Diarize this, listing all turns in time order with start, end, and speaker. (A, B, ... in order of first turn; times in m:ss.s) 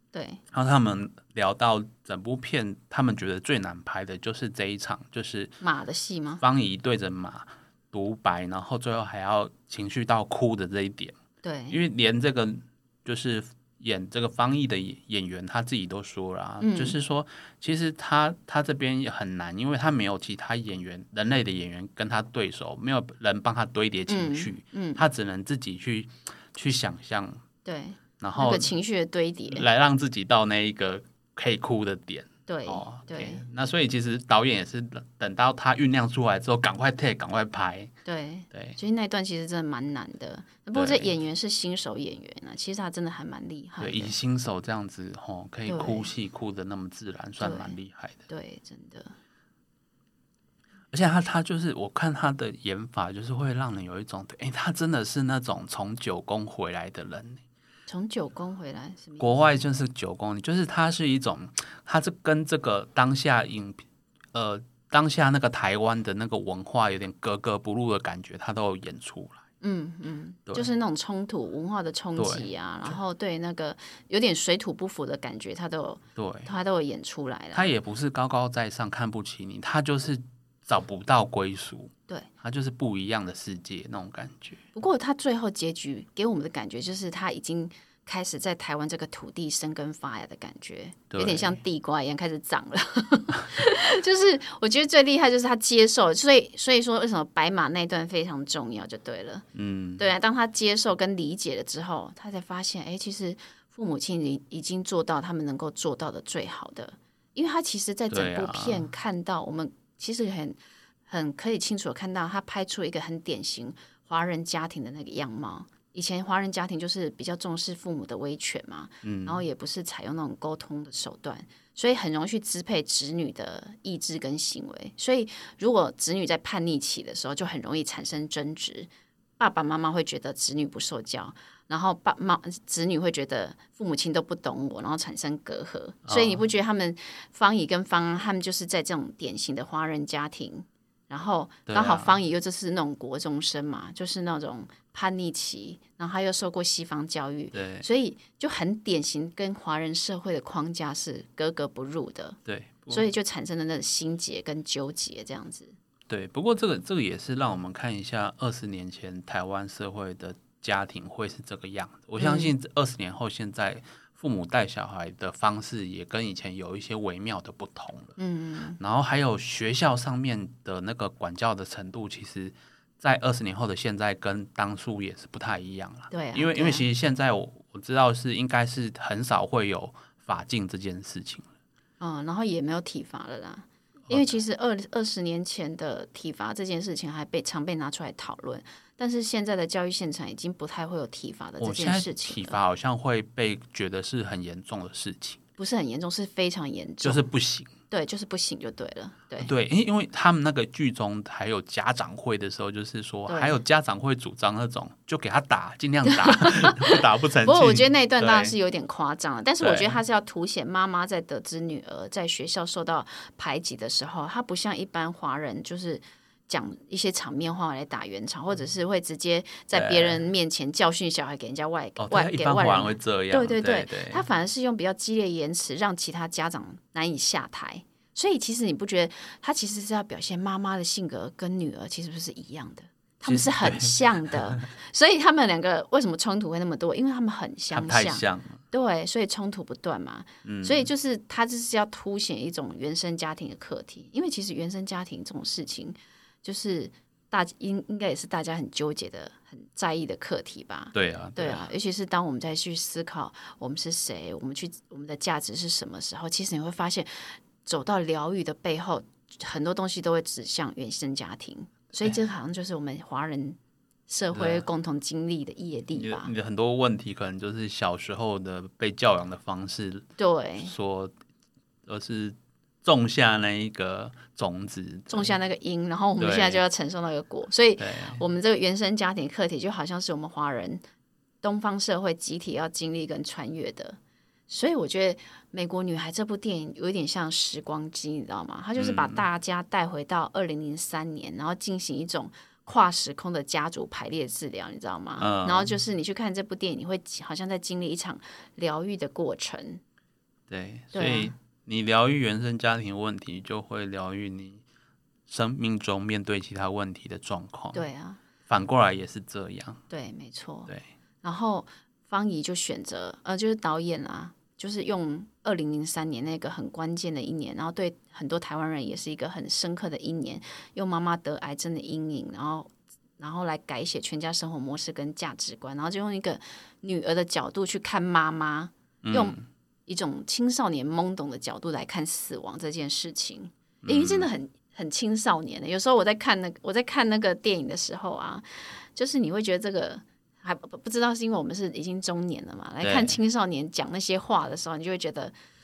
0:00.1-0:00.4 A
0:00.5-0:05.6 B
0:05.6-0:06.4 A
0:06.4-0:11.2 B
0:11.4-0:11.8 A
0:11.7-0:27.4 B
0:16.6-0:17.0 A
0:24.1-0:25.0 A
0:27.6-0:29.6 A
0:28.2-0:28.7 B
0:29.5-0:37.9 B
0:32.5-0:33.4 A
0:38.0-0:44.1 A
0:38.5-0:38.8 B
0:40.7-0:41.1 B
0:43.8-0:48.2 B
0:45.7-0:46.1 A
0:47.4-0:47.8 A
0:48.3-0:49.1 A
0:50.9-0:57.4 B
0:57.9-0:59.6 A
0:59.2-1:03.8 B
1:04.3-1:09.4 B
1:09.6-1:17.7 A
1:12.2-1:13.0 B
1:16.2-1:16.5 B
1:17.5-1:24.6 B
1:24.7-1:39.4 A
1:31.1-1:31.6 B
1:39.5-1:40.1 B
1:40.0-2:32.4 A
1:48.1-1:48.8 B
1:59.0-1:59.4 B
2:16.1-2:16.4 B
2:21.7-2:22.1 B
2:27.5-2:27.8 B
2:32.4-2:33.1 B
2:32.9-2:35.7 A
2:36.1-2:48.1 B
2:42.2-2:42.5 A
2:48.2-2:48.8 A
2:48.8-3:01.5 B
2:56.1-2:56.9 A
3:02.0-3:12.6 A
3:04.1-3:04.4 B
3:11.6-3:15.4 B
3:15.6-3:17.3 A
3:17.0-3:17.7 B
3:17.9-3:19.5 A
3:19.4-3:28.6 B
3:23.3-3:23.6 A
3:26.0-4:26.3 A
3:29.6-3:30.0 B
3:39.7-3:40.2 B
3:42.0-3:44.2 B
3:53.2-3:54.6 B
3:57.7-3:58.6 B
4:00.4-4:00.9 B
4:10.9-4:11.7 B
4:24.3-4:24.6 B
4:25.9-4:30.1 B
4:30.2-4:30.7 A
4:30.6-4:31.1 B
4:31.9-4:35.3 B
4:35.1-4:40.8 A
4:36.2-4:36.6 B
4:37.8-4:38.2 B
4:41.4-4:44.0 A
4:44.5-4:59.8 A
4:48.8-4:49.2 B
4:55.2-4:55.7 B
5:00.5-5:04.6 B
5:00.9-5:01.3 A
5:05.3-5:07.8 B
5:07.7-5:08.2 A
5:08.5-5:09.8 B
5:09.9-5:10.7 A
5:11.2-5:45.3 A
5:29.0-5:29.4 B
5:33.8-5:34.3 B
5:42.8-5:43.2 B